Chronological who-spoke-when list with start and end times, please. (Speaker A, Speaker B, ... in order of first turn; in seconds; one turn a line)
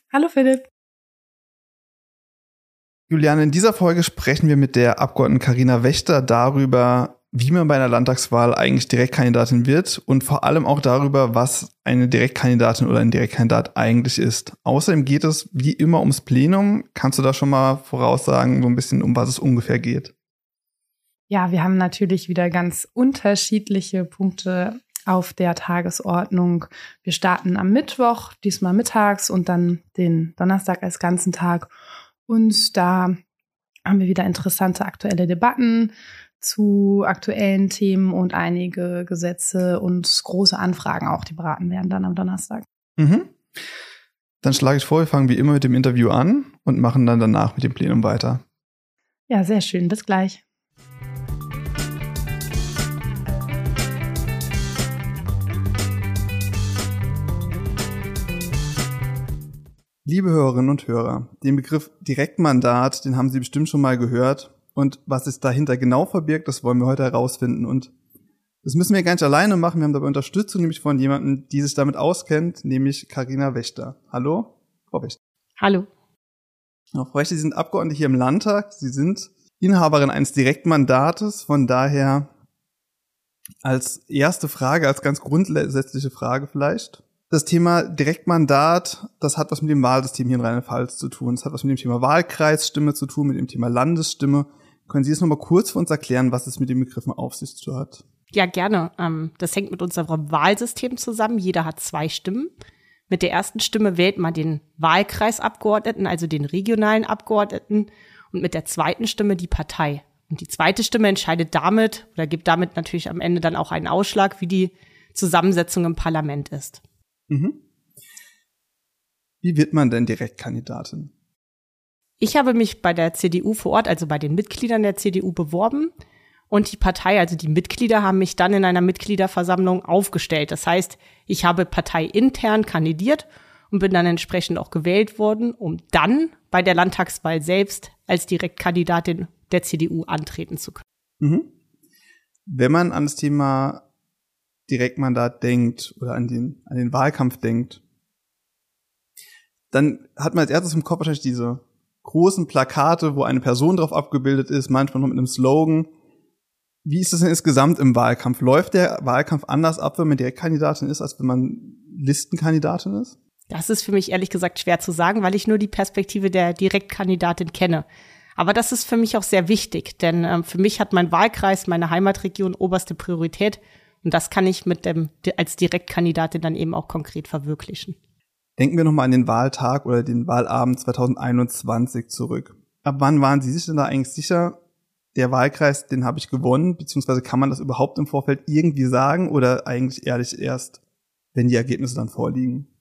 Speaker A: 0.1-0.7
Speaker B: 3.1-20.1
Speaker A: 21.3-31.7
Speaker A: 32.3-33.2
Speaker A: 33.9-42.6
Speaker B: 43.0-43.3
Speaker B: 44.4-48.4
Speaker A: 49.3-50.4
Speaker B: 60.0-67.9
Speaker B: 68.6-75.2
Speaker C: 75.6-75.9
Speaker B: 76.9-82.3
Speaker B: 83.6-98.0
Speaker C: 98.3-102.5
Speaker C: 103.1-116.8
Speaker B: 117.3-117.6
Speaker B: 119.4-121.1
Speaker C: 122.2-125.9
Speaker C: 126.5-140.8
Speaker B: 141.2-141.5
Speaker B: 142.5-143.8
Speaker B: 144.7-147.8
Speaker B: 149.7-155.9
Speaker B: 156.8-163.2
Speaker C: 163.5-167.8
Speaker C: 168.4-177.9
Speaker B: 178.6-184.6
Speaker B: 185.2-190.8
Speaker B: 191.3-192.7